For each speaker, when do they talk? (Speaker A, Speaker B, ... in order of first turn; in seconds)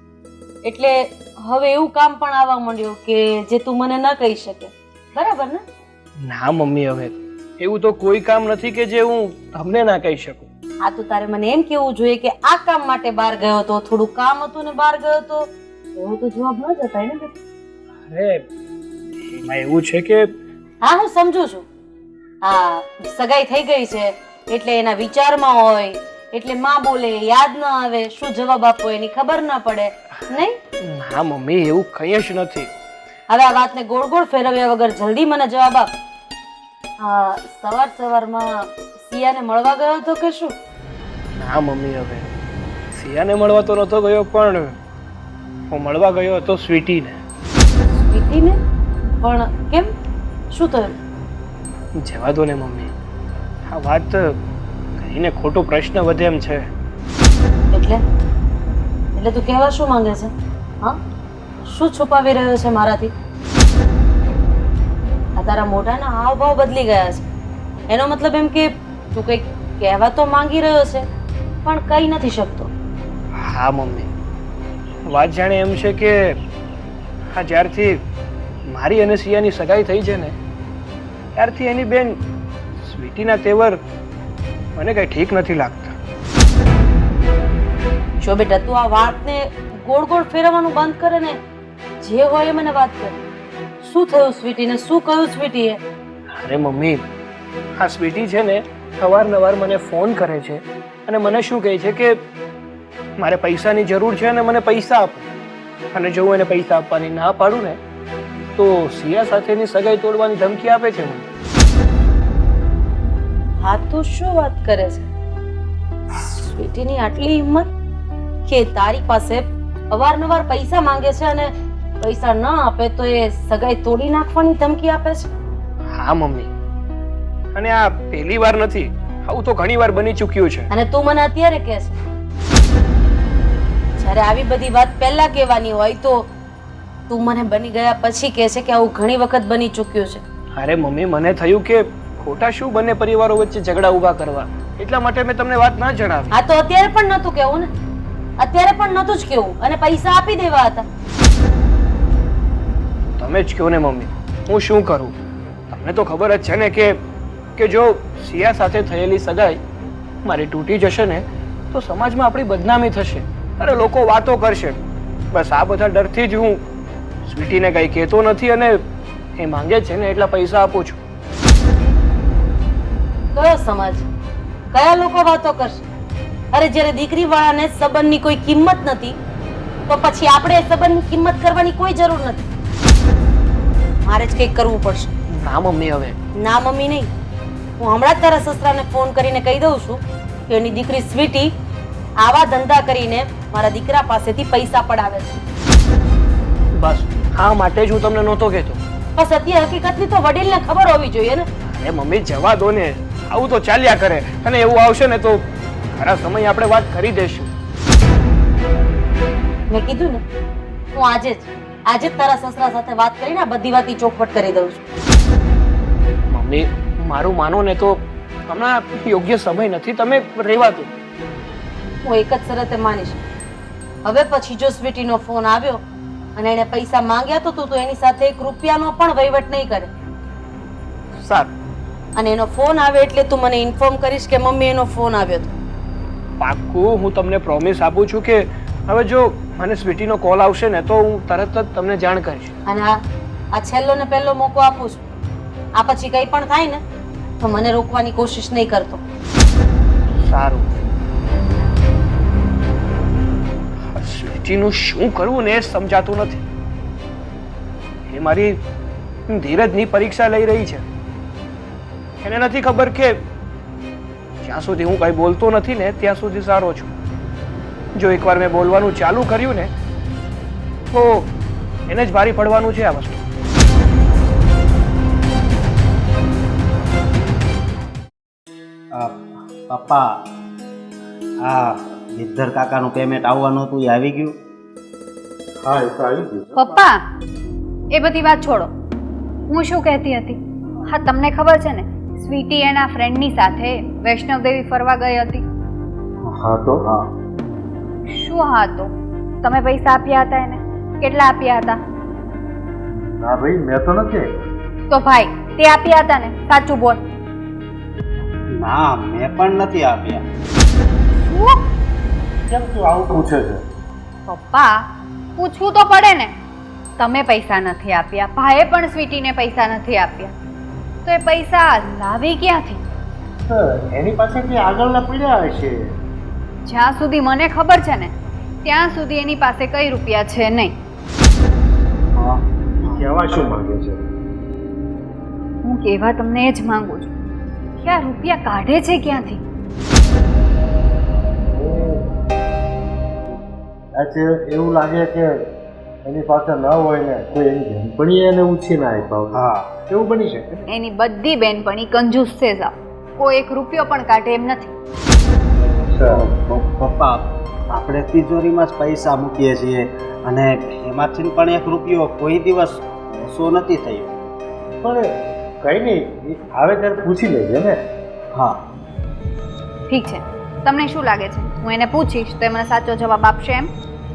Speaker A: 0.6-5.6, 10.8-17.3, 20.8-21.6, 22.4-30.6, 33.3-35.9, 37.0-40.5, 47.9-48.6, 49.2-49.9, 50.5-51.0, 57.7-58.0, 59.1-61.0, 61.6-63.1, 65.3-67.2, 67.9-71.1, 71.6-72.7, 88.2-91.4, 92.0-93.2, 93.8-95.8, 113.6-115.1, 116.1-117.7, 118.5-125.3, 130.7-131.9, 134.0-136.3, 137.1-140.2, 146.3-147.7, 148.4-150.8, 173.3-174.1, 174.7-175.8, 176.5-179.2, 179.9-182.5, 184.0-185.1, 186.3-187.1, 187.8-191.5, 192.2-195.4, 199.2-201.5, 209.7-210.2, 210.9-214.8, 222.0-223.2, 224.0-225.8, 226.3-229.9, 232.1-235.5, 242.7-243.0, 243.5-245.0, 245.7-246.8, 247.4-249.0
Speaker B: 6.2-10.5, 18.1-18.4, 19.3-20.3, 30.2-32.7, 41.4-42.3, 42.9-44.8, 45.7-47.2, 52.0-52.9, 53.7-54.4, 55.0-56.6, 73.4-74.1, 75.0-76.3, 77.3-78.0, 78.7-80.3, 81.3-82.2, 82.8-83.8, 84.8-86.0, 96.3-97.0, 97.8-102.1, 103.2-105.3, 105.9-107.8, 108.5-111.2, 125.9-126.5, 127.5-130.7, 140.5-146.4, 153.1-155.1, 155.7-156.9, 157.6-159.6, 160.2-164.8, 165.3-166.6, 167.2-168.8, 169.4-171.0, 185.3-186.2, 196.7-198.8, 201.7-207.5, 216.3-220.9, 231.2-231.5, 236.4-242.5, 250.2-250.8, 253.9-256.4, 258.1-258.6, 259.3-260.8, 262.2-263.2, 264.4-266.9, 267.9-269.7, 270.9-271.3, 271.9-273.2
Speaker C: 278.9-280.1, 281.4-284.3, 308.6-310.2, 332.1-333.1, 349.3-349.7, 356.1-364.1
Speaker D: 285.6-286.7, 296.3-296.9, 302.9-304.4, 312.5-313.6, 323.5-325.8, 332.8-334.0, 341.5-342.0, 343.9-345.3, 346.0-350.6, 355.9-356.2, 364.8-365.1, 365.6-367.8
Speaker E: 286.6-287.0, 287.9-288.7, 289.5-295.4, 298.1-298.9, 299.4-301.8, 304.9-307.0, 311.2-311.6, 314.3-314.8, 315.4-316.3, 317.0-320.3, 321.0-322.8, 326.6-328.1, 328.6-330.7, 335.6-337.1, 337.8-339.4, 350.7-354.7, 369.9-373.7